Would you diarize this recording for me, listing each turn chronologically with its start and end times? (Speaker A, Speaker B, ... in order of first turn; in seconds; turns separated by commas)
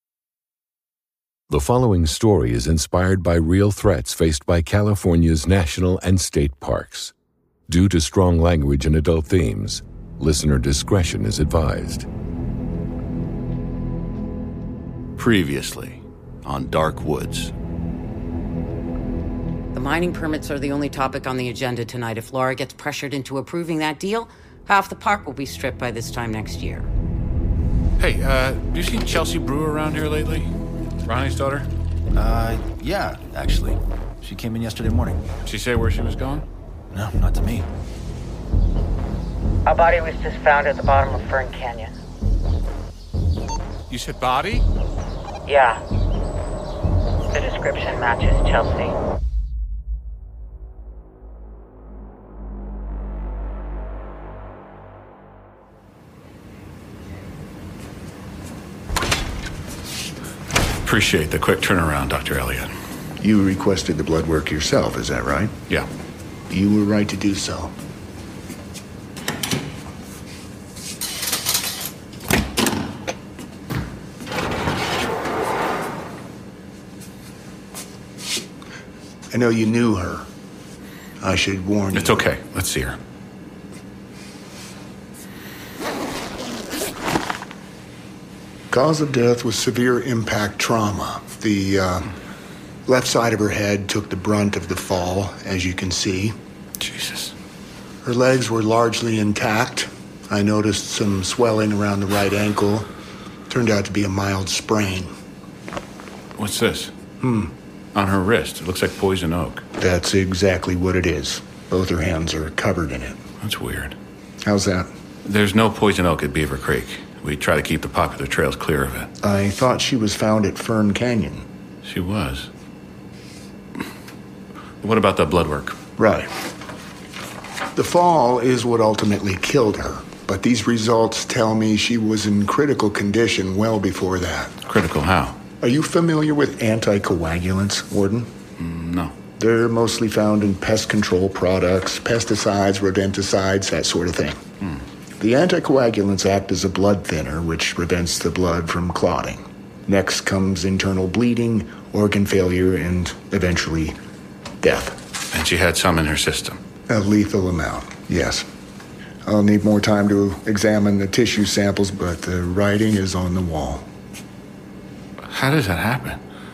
Speaker A: 1.5-7.1, Speaker A: 7.7-12.1, Speaker B: 15.2-17.5, Speaker C: 19.7-26.9, Speaker B: 28.0-30.5, Speaker B: 31.1-31.7, Speaker D: 32.1-35.2, Speaker B: 35.5-36.5, Speaker D: 36.9-37.7, Speaker E: 39.7-41.9, Speaker B: 43.9-44.6, Speaker E: 45.5-45.8, Speaker E: 47.3-48.9, Speaker B: 60.9-62.7, Speaker F: 63.2-65.5, Speaker F: 66.5-67.7, Speaker F: 79.3-80.3, Speaker F: 81.2-82.3, Speaker B: 81.9-83.0, Speaker F: 88.7-92.1, Speaker F: 92.9-96.3, Speaker B: 96.8-97.3, Speaker F: 98.0-102.9, Speaker F: 103.5-105.1, Speaker B: 106.4-106.9, Speaker F: 107.2-107.5, Speaker B: 107.9-109.7, Speaker F: 109.8-113.2, Speaker B: 113.4-114.0, Speaker F: 114.4-114.9, Speaker B: 115.2-119.1, Speaker F: 119.2-121.5, Speaker B: 121.8-122.5, Speaker B: 124.8-125.8, Speaker F: 126.0-126.3, Speaker F: 127.8-134.6, Speaker B: 134.7-135.4, Speaker F: 135.6-138.3, Speaker B: 138.6-139.1, Speaker F: 139.4-144.4, Speaker F: 145.2-154.0, Speaker F: 154.6-155.0, Speaker B: 155.3-156.6, Speaker F: 156.9-158.4, Speaker F: 159.2-163.9, Speaker B: 165.2-166.2